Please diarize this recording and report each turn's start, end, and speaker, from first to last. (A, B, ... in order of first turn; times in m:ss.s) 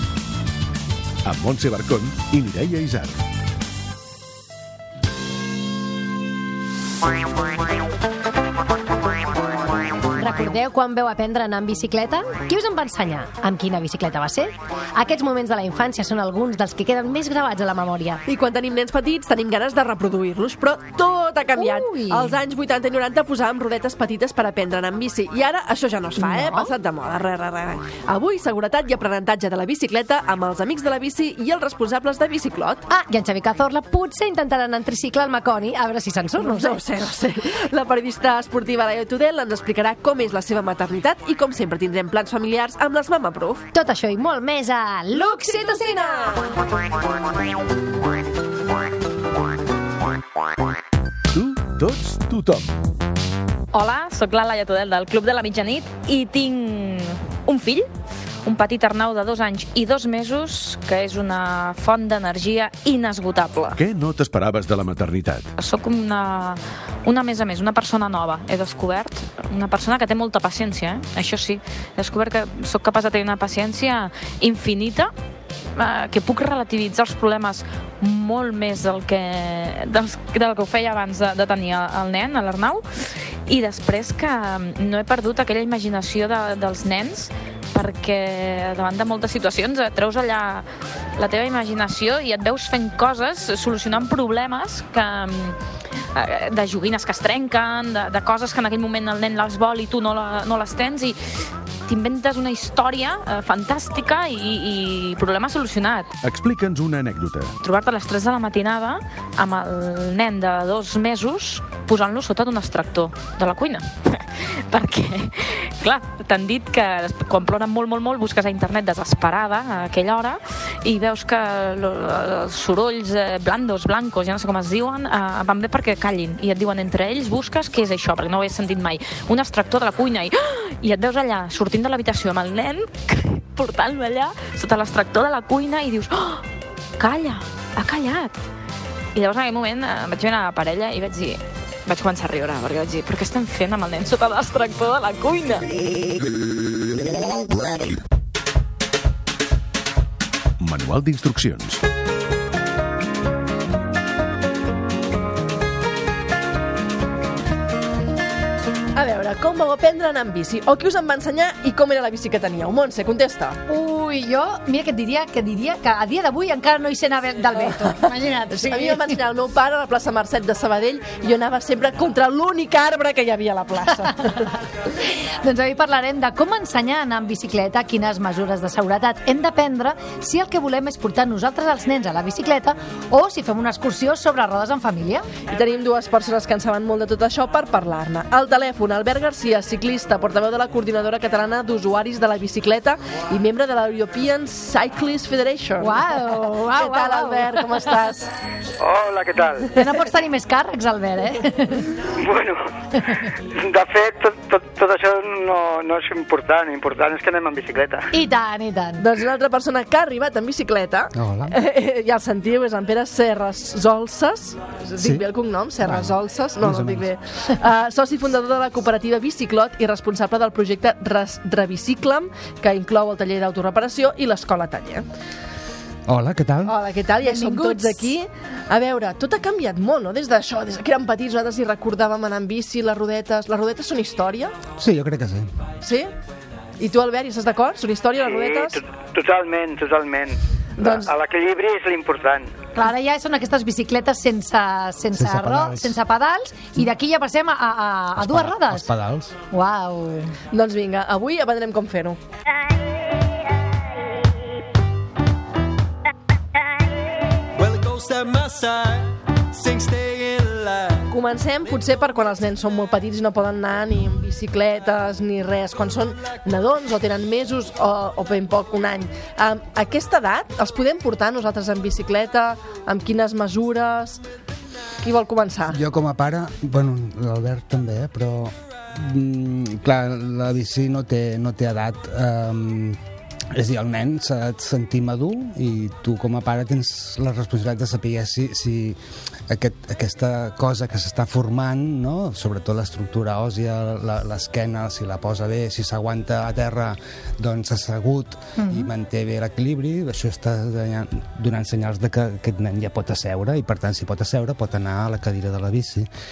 0:01.2-0:03.2 A
0:10.2-0:18.2 B
0:18.3-0:32.8 C
0:21.6-0:22.4 B
0:26.2-0:26.7 B
0:32.9-0:36.8 B
0:36.4-0:43.7 C
0:43.7-0:46.4 B
0:45.1-0:46.4 C
0:51.3-0:52.8 A
0:53.7-0:57.9 D
0:58.4-1:03.8 D
1:03.8-1:05.5 A
1:05.6-1:15.1 D
1:15.8-1:30.7 D
1:31.2-1:35.6 D
1:36.1-1:41.2 D
1:41.9-1:46.1 D
1:46.2-1:47.5 A
1:47.6-2:16.4 D
2:17.0-2:18.4 D
2:19.1-2:25.7 D
2:30.6-2:31.8 A
2:38.9-2:43.6 C
2:43.7-2:49.2 B
2:48.5-2:54.4 C
2:55.4-3:05.3 B
3:05.5-3:18.3 C
3:15.8-3:18.0 B
3:18.8-3:19.8 E
3:19.8-3:21.9 B
3:22.1-3:22.7 E
3:23.5-3:28.1 E
3:28.1-3:29.0 B
3:29.0-3:45.0 C
3:31.1-3:31.5 F
3:35.0-3:35.2 F
3:35.8-3:37.1 F
3:46.1-3:46.8 F
3:46.7-3:54.5 C
3:47.2-3:48.1 B
3:54.8-3:55.5 F
3:55.8-3:56.1 C
3:56.8-3:58.8 C
3:58.2-4:02.5 E
4:00.8-4:01.1 C
4:02.8-4:08.9 B
4:05.1-4:06.0 F
4:08.1-4:09.4 F
4:09.5-4:10.3 B
4:10.5-4:12.2 C
4:17.6-4:21.0 G
4:21.1-4:34.2 C
4:35.0-4:35.8 C
4:35.7-4:43.0 F
4:43.5-5:06.1 F
4:58.6-4:58.9 B